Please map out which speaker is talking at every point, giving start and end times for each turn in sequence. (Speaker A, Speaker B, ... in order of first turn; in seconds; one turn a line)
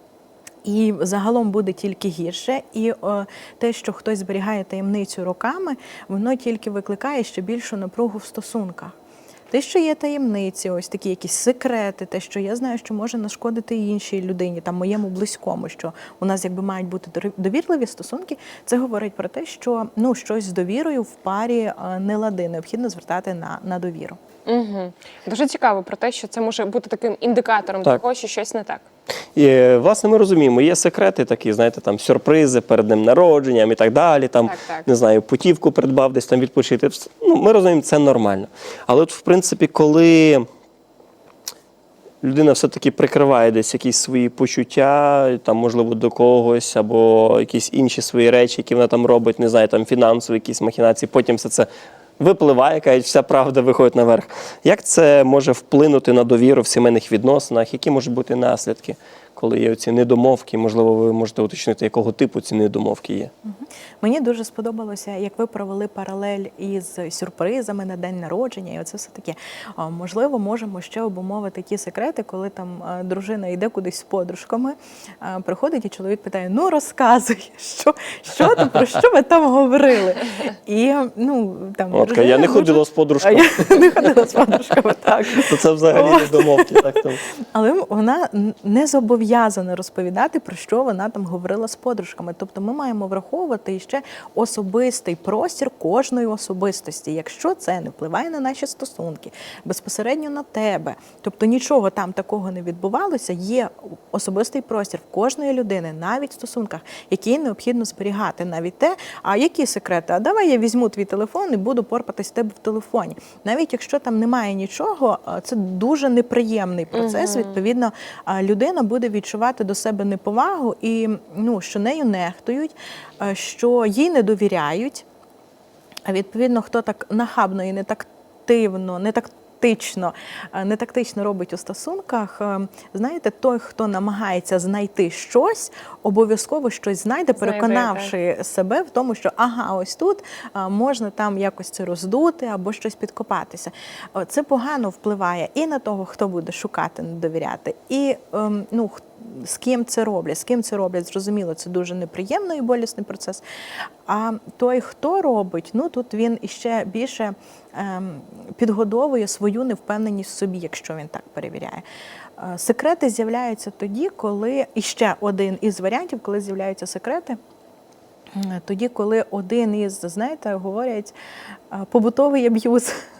Speaker A: 0.6-8.9
Speaker A: 9.5-24.2
Speaker B: 24.5-28.9
Speaker C: 29.4-40.5
Speaker B: 34.5-34.9
Speaker C: 42.2-63.3
Speaker A: 63.4-87.0
Speaker C: 81.9-83.8
Speaker C: 85.3-87.2
Speaker A: 87.5-125.0
Speaker B: 116.9-117.6
Speaker A: 126.1-153.4
Speaker B: 137.4-138.1
Speaker A: 154.1-161.8
Speaker A: 162.4-167.4
Speaker A: 168.3-171.1
Speaker A: 171.7-172.9